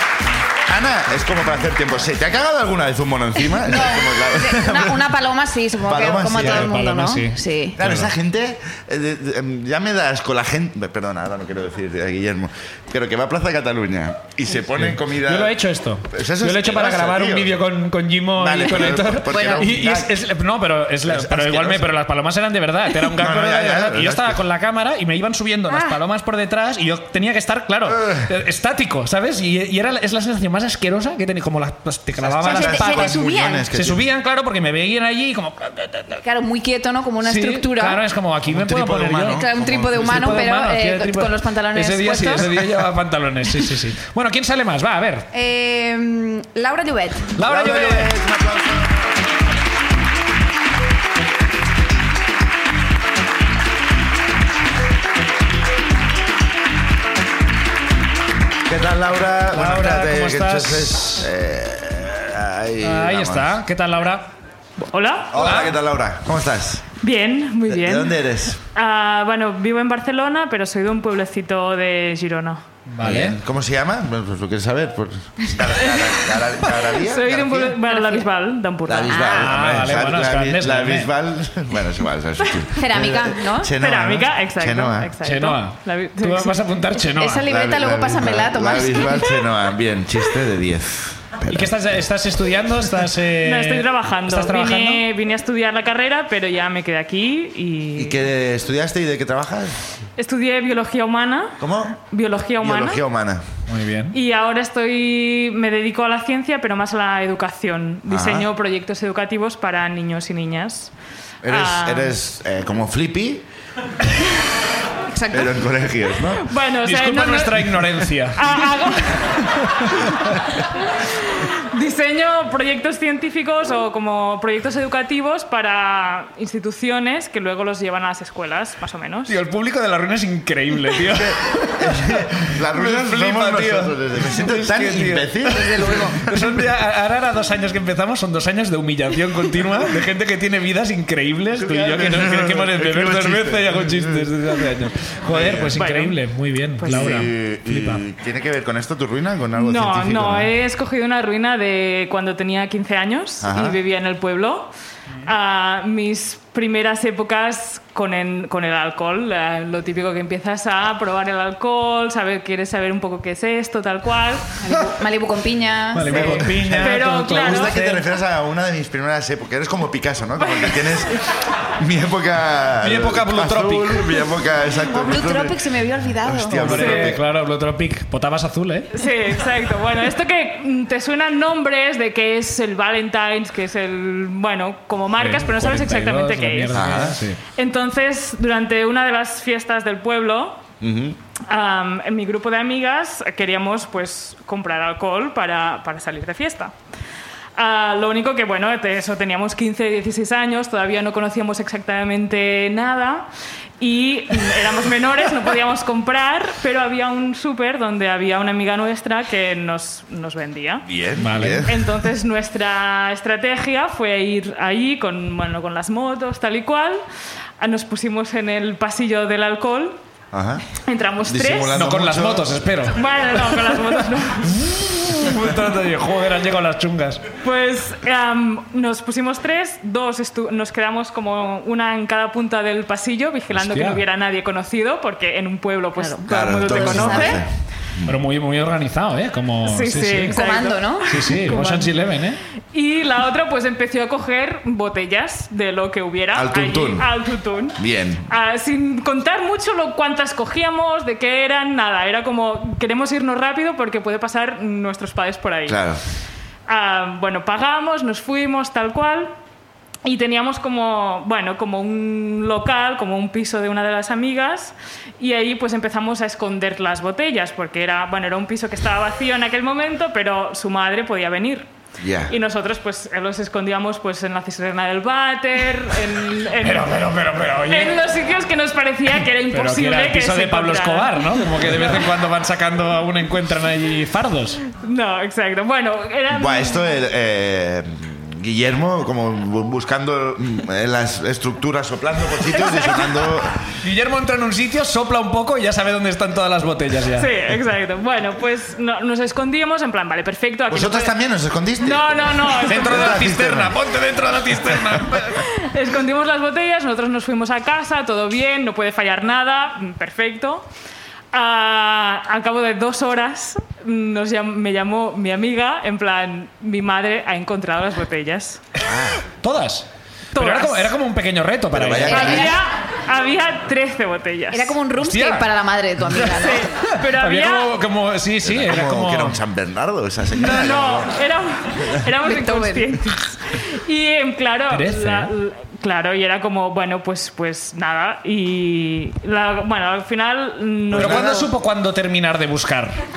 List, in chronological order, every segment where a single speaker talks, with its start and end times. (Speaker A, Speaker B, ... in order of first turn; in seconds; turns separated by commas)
Speaker A: 0.7-5.1, Speaker B: 3.6-7.8, Speaker A: 5.9-6.8, Speaker C: 6.3-8.1, Speaker A: 7.8-17.6, Speaker C: 14.8-36.2, Speaker A: 18.4-20.1, Speaker B: 19.3-19.8, Speaker A: 21.1-21.9, Speaker A: 23.1-24.4, Speaker B: 25.7-26.0, Speaker A: 27.9-28.3, Speaker A: 32.2-34.0, Speaker B: 32.4-33.7, Speaker B: 36.2-38.0, Speaker C: 37.2-45.3, Speaker A: 38.5-40.4, Speaker B: 39.3-42.6, Speaker B: 45.3-47.3, Speaker C: 47.4-48.1, Speaker A: 47.4-49.1, Speaker A: 58.7-63.6, Speaker C: 59.5-61.3, Speaker C: 62.8-64.3, Speaker D: 64.8-65.6, Speaker A: 65.3-66.9, Speaker C: 65.3-65.7, Speaker D: 67.0-68.2, Speaker A: 67.7-68.6, Speaker D: 68.7-72.6, Speaker C: 72.9-73.4, Speaker A: 73.0-77.8, Speaker D: 75.8-76.1, Speaker D: 77.0-79.2, Speaker B: 77.9-78.3, Speaker A: 78.9-85.1, Speaker B: 79.1-79.6, Speaker C: 79.4-81.1, Speaker B: 82.8-83.7, Speaker D: 83.8-86.6, Speaker C: 85.2-87.5, Speaker B: 87.1-89.3, Speaker A: 87.5-91.7, Speaker C: 91.5-95.0, Speaker D: 93.4-98.2, Speaker A: 98.0-99.8, Speaker D: 100.2-103.0, Speaker A: 101.6-102.0, Speaker A: 102.6-103.4, Speaker C: 103.7-104.2, Speaker D: 104.1-110.9, Speaker A: 108.1-108.5, Speaker A: 111.4-113.5, Speaker D: 111.5-112.2, Speaker B: 115.1-115.5, Speaker A: 115.3-116.5, Speaker D: 116.4-117.7, Speaker C: 116.8-118.7, Speaker D: 118.4-119.5, Speaker C: 119.4-120.4, Speaker D: 121.3-129.4, Speaker C: 129.3-148.0, Speaker A: 131.1-136.7, Speaker A: 141.6-144.3, Speaker A: 145.3-145.8, Speaker D: 145.8-146.2, Speaker D: 146.8-147.3, Speaker A: 146.9-150.5, Speaker D: 149.6-154.7, Speaker A: 153.4-153.8, Speaker D: 155.2-164.5, Speaker B: 164.6-166.4, Speaker C: 165.9-168.0, Speaker A: 166.1-171.2, Speaker D: 166.2-167.8, Speaker D: 170.4-171.2, Speaker A: 171.8-175.6, Speaker C: 172.8-174.2, Speaker B: 174.9-176.7, Speaker A: 176.2-177.2, Speaker C: 176.5-178.9, Speaker D: 176.7-177.2, Speaker D: 178.9-187.1, Speaker C: 185.2-187.4, Speaker A: 186.7-187.2, Speaker D: 187.6-190.6, Speaker A: 190.8-191.2, Speaker D: 191.5-196.7, Speaker D: 197.6-203.3, Speaker D: 203.8-210.9, Speaker A: 210.9-211.8, Speaker C: 211.2-211.7, Speaker D: 211.5-217.0, Speaker D: 217.6-220.0, Speaker A: 220.3-220.6, Speaker D: 220.9-221.8, Speaker A: 221.2-222.9, Speaker C: 221.7-223.5, Speaker D: 222.9-224.6, Speaker C: 224.5-227.2, Speaker D: 227.4-237.4, Speaker C: 233.5-234.0, Speaker B: 236.0-237.4, Speaker A: 236.3-238.2, Speaker C: 238.1-240.4, Speaker D: 239.7-242.0, Speaker B: 240.2-241.1, Speaker C: 241.1-242.4, Speaker D: 242.7-247.8, Speaker A: 246.3-247.1, Speaker A: 247.8-248.3, Speaker D: 248.3-255.8, Speaker A: 255.7-256.0, Speaker D: 256.7-259.3, Speaker D: 260.1-271.7, Speaker A: 272.0-272.4, Speaker D: 272.3-277.1, Speaker C: 276.6-278.0, Speaker D: 277.6-282.1, Speaker C: 279.5-284.6, Speaker D: 284.7-286.9, Speaker A: 286.3-293.7, Speaker D: 292.5-293.4, Speaker C: 293.8-297.3, Speaker D: 297.1-301.1, Speaker A: 300.7-303.8, Speaker D: 301.8-303.2, Speaker C: 302.7-305.4, Speaker A: 304.5-305.1, Speaker D: 305.4-310.7, Speaker D: 311.3-318.6, Speaker A: 318.8-319.2, Speaker C: 319.4-322.5, Speaker D: 320.4-320.9, Speaker A: 321.7-322.6, Speaker D: 322.1-324.8, Speaker B: 322.1-322.5, Speaker B: 324.5-326.7, Speaker C: 325.0-325.5, Speaker C: 326.1-329.4, Speaker D: 326.4-327.7, Speaker A: 328.4-331.1, Speaker D: 330.4-341.5, Speaker B: 332.2-332.9, Speaker C: 334.7-335.3, Speaker A: 340.9-341.5, Speaker C: 340.9-342.9